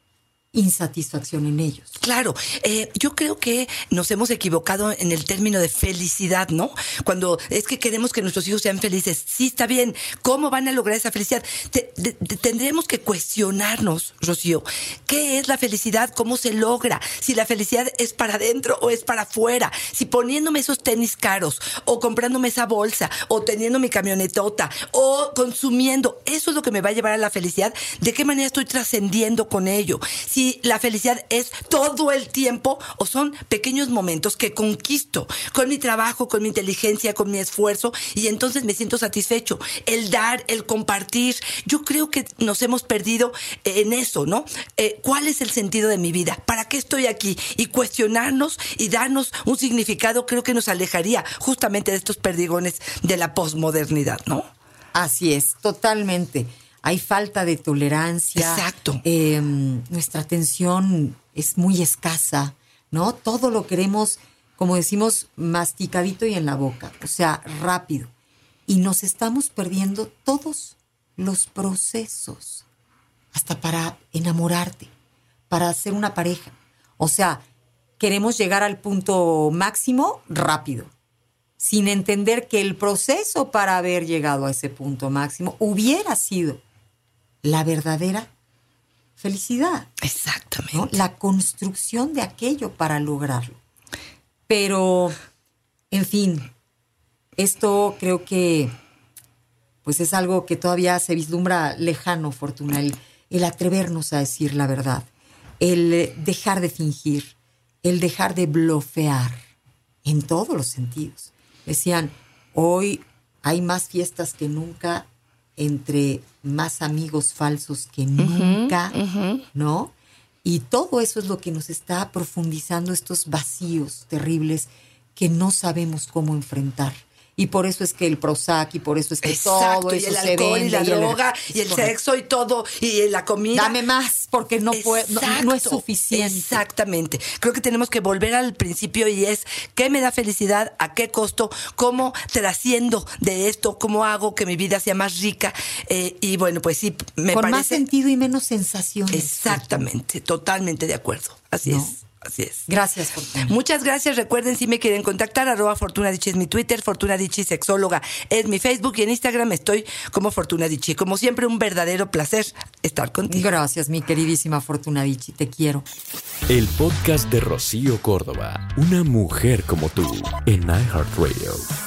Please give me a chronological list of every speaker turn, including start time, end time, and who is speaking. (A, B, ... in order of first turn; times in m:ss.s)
0:00.5-0:02.0 A
0:02.0-0:54.5 B
0:54.9-1:08.1 A
0:58.4-0:59.0 B
1:08.7-1:12.6 A
1:13.3-1:14.9 A
1:15.5-1:17.4 A
1:18.0-1:20.9 A
1:21.6-1:26.6 A
1:27.4-1:28.3 A
1:29.2-1:29.9 A
1:30.0-1:31.0 B
1:30.7-1:33.6 A
1:34.5-1:35.2 A
1:35.9-1:36.5 A
1:37.4-1:38.7 A
1:39.8-1:45.1 A
1:45.6-1:49.4 A
1:50.0-1:59.0 A
1:58.2-1:59.4 B
1:59.5-1:59.9 A
2:00.4-2:11.9 A
2:09.2-2:13.8 B
2:13.5-2:16.6 A
2:14.7-2:27.8 B
2:27.3-2:29.9 A
2:29.1-2:32.7 B
2:31.6-2:32.0 A
2:32.7-2:33.6 A
2:33.5-2:43.5 B
2:43.3-2:45.8 A
2:46.5-2:51.6 C